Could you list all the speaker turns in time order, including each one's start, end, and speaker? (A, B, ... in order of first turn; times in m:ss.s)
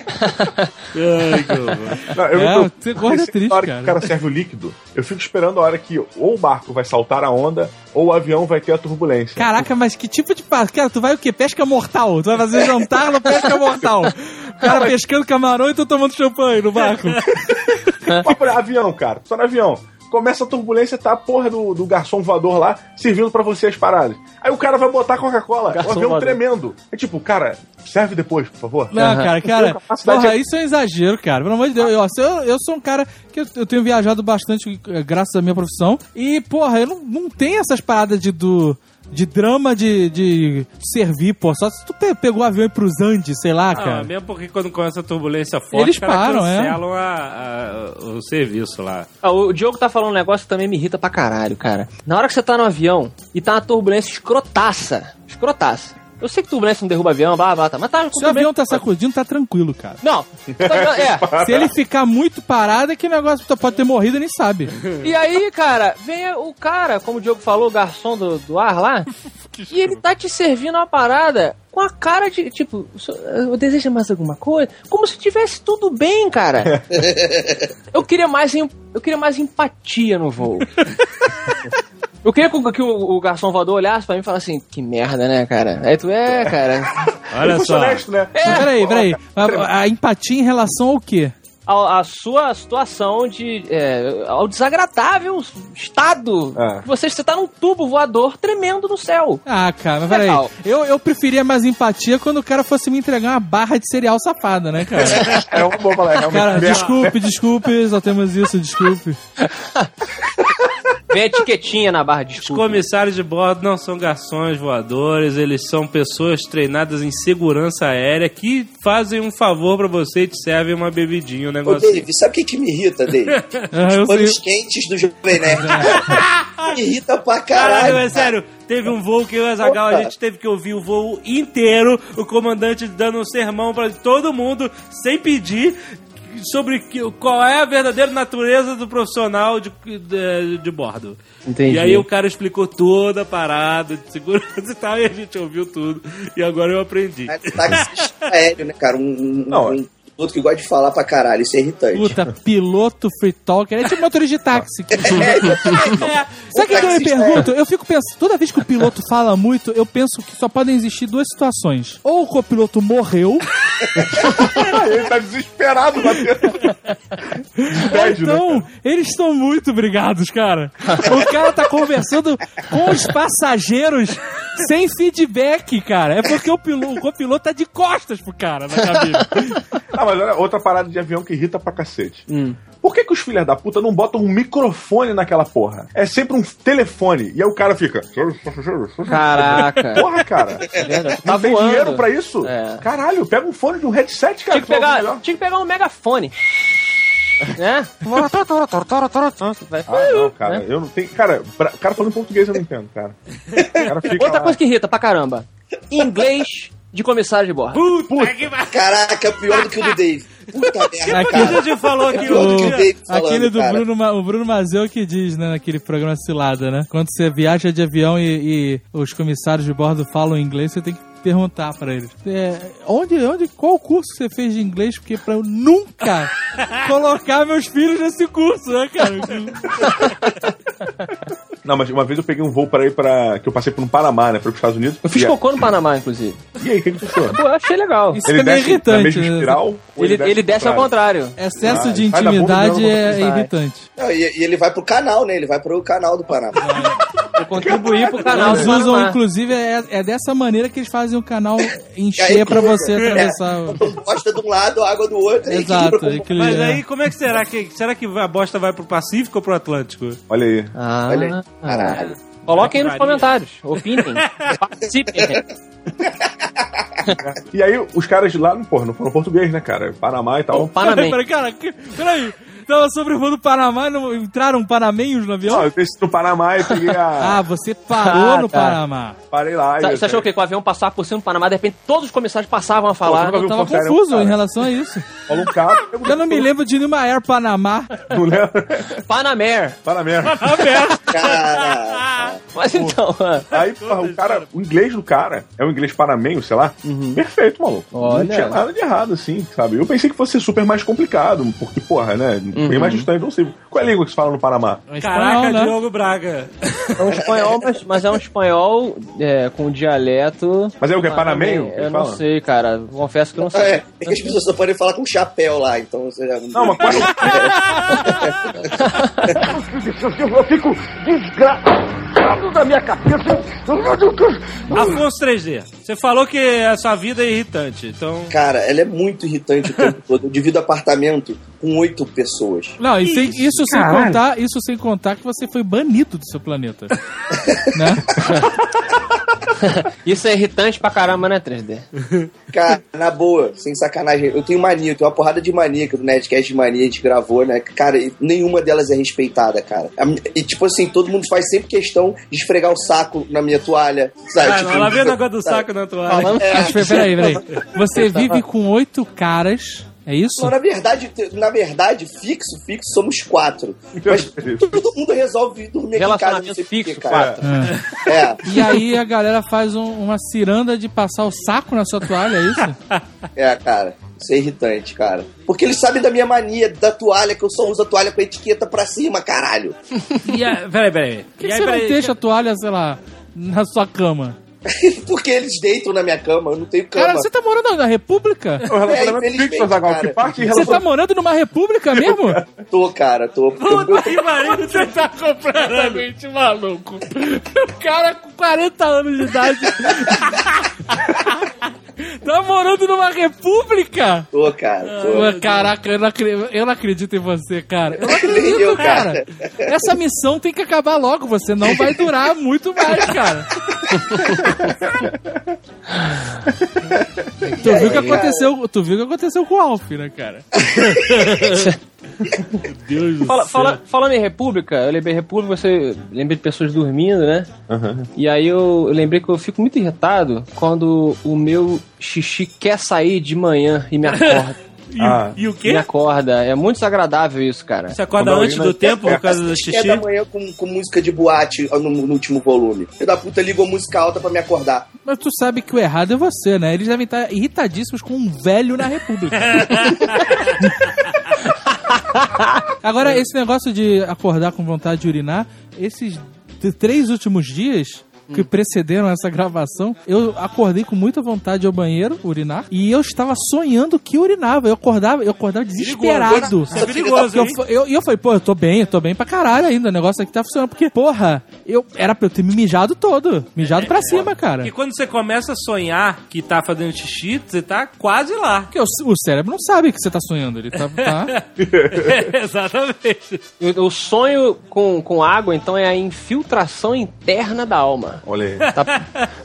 0:00.2-0:00.7 A
0:00.9-0:02.1 B
0:02.1-0:09.6 C
0:02.3-0:04.0 D
0:09.4-0:17.3 D
0:16.9-0:17.2 B
0:18.1-0:30.4 C
0:25.7-0:26.4 A
0:28.9-0:44.1 D
0:28.9-0:29.3 A
0:43.7-0:49.1 B
0:45.7-0:46.8 D
0:49.2-0:58.8 A
0:58.1-1:00.0 D
1:00.0-1:01.3 A
1:00.5-1:01.7 C
1:01.3-1:04.8 D
1:05.0-1:09.1 A
1:09.7-1:16.8 A
1:17.0-1:17.6 E
1:17.9-1:20.7 A
1:22.2-1:26.9 A
1:27.3-1:29.7 C
1:27.3-1:28.0 B
1:28.3-1:28.7 A
1:28.4-1:31.4 D
1:31.7-1:39.4 A
1:36.6-1:36.9 C
1:39.5-1:45.4 D
1:40.1-1:40.5 A
1:45.1-1:47.2 C
1:46.3-1:49.2 D
1:46.6-1:47.0 B
1:49.6-1:49.9 A
1:51.1-1:52.8 A
1:52.4-2:02.1 B
2:01.7-2:08.3 E
2:03.3-2:03.6 B
2:03.7-2:04.4 D
2:05.4-2:06.2 D
2:05.8-2:06.8 B
2:07.5-2:15.8 B
2:09.6-2:10.1 E
2:16.3-2:28.1 B
2:21.5-2:22.1 A
2:27.3-2:32.2 E
2:29.5-2:29.8 C
2:31.9-2:35.8 D
2:35.0-2:37.5 E
2:35.8-2:37.0 B
2:36.5-2:43.5 D
2:44.0-2:46.8 C
2:47.6-2:59.6 D
2:47.7-2:48.6 C
2:59.9-3:15.2 C
3:02.3-3:02.6 A
3:09.0-3:10.2 A
3:10.7-3:12.9 A
3:14.5-3:20.7 A
3:19.9-3:23.2 C
3:23.6-3:23.8 B
3:23.8-3:24.6 C
3:24.0-3:27.9 A
3:27.7-3:30.0 B
3:28.1-3:28.4 C
3:28.7-3:33.8 E
3:30.6-3:32.9 B
3:31.1-3:49.8 D
3:51.6-3:55.4 C
3:55.0-3:56.5 A
3:56.6-3:57.4 C
3:57.2-3:58.2 A
3:58.1-3:59.6 D
3:58.2-4:00.9 C
4:00.0-4:01.9 A
4:01.4-4:03.9 D
4:01.5-4:03.2 C
4:03.1-4:03.5 A
4:04.0-4:06.6 E
4:06.6-4:07.0 D
4:07.4-4:09.2 A
4:08.2-4:08.8 C
4:08.3-4:13.8 D
4:12.2-4:16.6 E
4:15.5-4:16.8 D
4:16.4-4:20.2 B
4:20.3-4:20.7 C
4:20.7-4:25.4 A
4:21.1-4:22.1 E
4:22.5-4:23.3 B
4:23.9-4:24.6 B
4:26.0-4:27.0 E
4:27.2-4:30.8 C
4:30.5-4:31.2 A
4:30.8-4:35.7 D
4:35.5-4:37.4 C
4:36.6-4:37.0 A
4:37.2-4:39.2 D
4:37.9-4:38.8 A
4:39.3-4:40.3 C
4:39.8-4:43.5 A
4:43.0-4:44.4 C
4:43.4-4:45.1 D
4:45.3-4:46.5 C
4:46.0-4:47.9 D
4:48.0-4:49.0 C
4:49.0-4:49.8 A
4:49.8-4:50.7 C
4:50.2-4:52.3 B
4:51.1-4:52.4 E
4:52.5-4:53.5 A
4:52.7-4:53.0 C
4:53.5-5:04.8 C
4:53.6-4:54.5 B
4:56.8-4:57.2 A
4:57.9-4:58.6 A
5:02.5-5:03.1 A
5:04.9-5:05.8 D
5:05.0-5:06.9 B
5:07.0-5:14.3 A
5:10.8-5:12.2 C
5:13.4-5:18.4 E
5:16.5-5:17.5 C
5:17.2-5:18.2 B
5:18.7-5:19.4 A
5:19.4-5:25.0 F
5:24.7-5:28.3 B
5:28.3-5:32.8 E
5:32.8-5:37.0 D
5:33.0-5:33.6 B
5:33.7-5:34.2 C
5:37.4-5:37.7 E
5:37.7-5:38.1 D
5:39.6-5:41.9 A
5:42.5-5:55.7 E
5:54.4-5:56.8 B
5:56.1-5:57.4 A
5:56.5-6:00.6 D
5:56.6-5:56.9 E
5:58.0-5:58.4 A
6:00.4-6:07.4 E
6:04.0-6:04.8 C
6:06.0-6:07.5 A
6:07.1-6:07.4 C
6:07.4-6:07.8 D
6:08.1-6:08.4 E
6:08.4-6:12.8 D
6:13.4-6:19.8 E
6:20.2-6:22.2 B
6:21.4-6:24.4 D
6:24.7-6:27.3 E
6:27.0-6:28.6 D
6:28.7-6:30.9 C
6:28.9-6:30.4 E
6:30.5-6:32.4 D
6:31.9-6:32.5 C
6:32.7-6:34.3 E
6:33.6-6:36.0 B
6:34.4-6:41.5 D
6:42.0-6:44.3 D
6:44.3-6:45.4 E
6:44.9-6:45.7 B
6:45.1-6:53.5 D
6:48.0-6:49.9 E
6:54.6-6:55.4 C
6:56.6-6:57.3 C
6:57.5-6:58.2 A
6:57.6-6:58.5 E
6:57.6-7:00.4 D
7:00.7-7:01.3 E
7:00.8-7:01.8 B
7:02.7-7:03.8 B
7:03.2-7:07.5 A
7:07.7-7:08.1 C
7:08.2-7:14.6 A
7:14.0-7:15.9 B
7:15.0-7:15.4 C
7:15.6-7:18.0 A
7:17.9-7:20.0 B
7:18.2-7:19.3 C
7:18.9-7:24.9 E
7:25.1-7:30.0 D
7:29.4-7:31.1 B
7:31.9-7:32.6 A
7:32.8-7:54.7 D
7:45.8-7:47.6 B
7:46.3-7:47.4 E
7:53.6-7:58.7 B
7:58.7-8:01.4 D
8:00.8-8:03.4 B
8:01.6-8:02.3 C
8:03.6-8:09.0 A
8:08.2-8:08.7 C
8:08.6-8:09.3 B